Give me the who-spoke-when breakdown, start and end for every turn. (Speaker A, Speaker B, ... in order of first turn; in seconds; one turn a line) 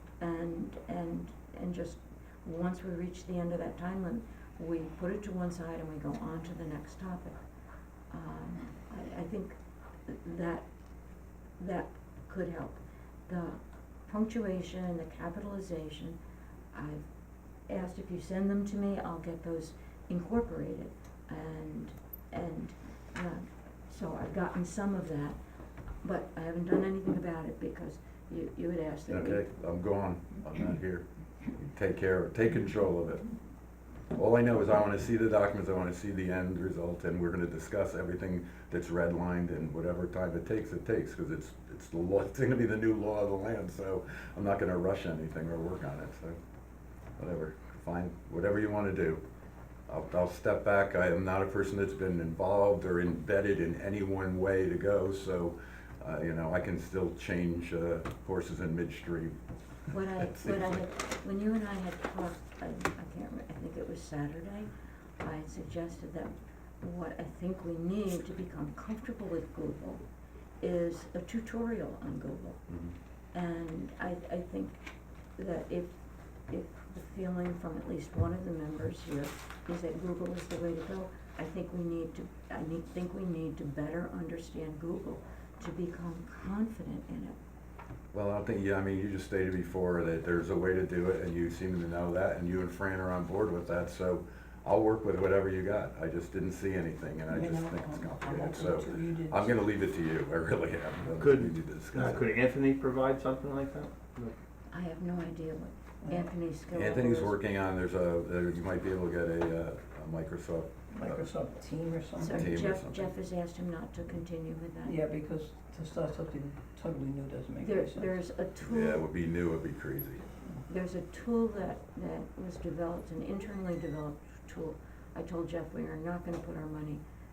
Speaker A: 0.2-7.4
Speaker A: 8.1-10.7
Speaker A: 11.6-16.2
Speaker A: 16.7-17.1
Speaker A: 17.7-25.4
Speaker A: 26.0-29.5
Speaker B: 29.1-33.2
Speaker B: 34.1-46.4
Speaker B: 47.2-49.2
Speaker B: 49.9-59.4
Speaker A: 59.9-64.7
Speaker B: 60.0-60.8
Speaker A: 65.2-70.0
Speaker A: 70.6-72.6
Speaker A: 73.3-74.8
Speaker A: 75.4-75.9
Speaker A: 76.5-87.4
Speaker B: 88.1-102.3
Speaker C: 97.3-99.5
Speaker D: 101.1-104.3
Speaker A: 104.7-107.4
Speaker C: 106.0-106.3
Speaker B: 106.7-111.2
Speaker C: 110.9-112.5
Speaker A: 112.2-115.0
Speaker B: 112.3-113.1
Speaker C: 114.8-118.1
Speaker A: 117.6-119.0
Speaker B: 118.6-120.2
Speaker A: 120.7-127.0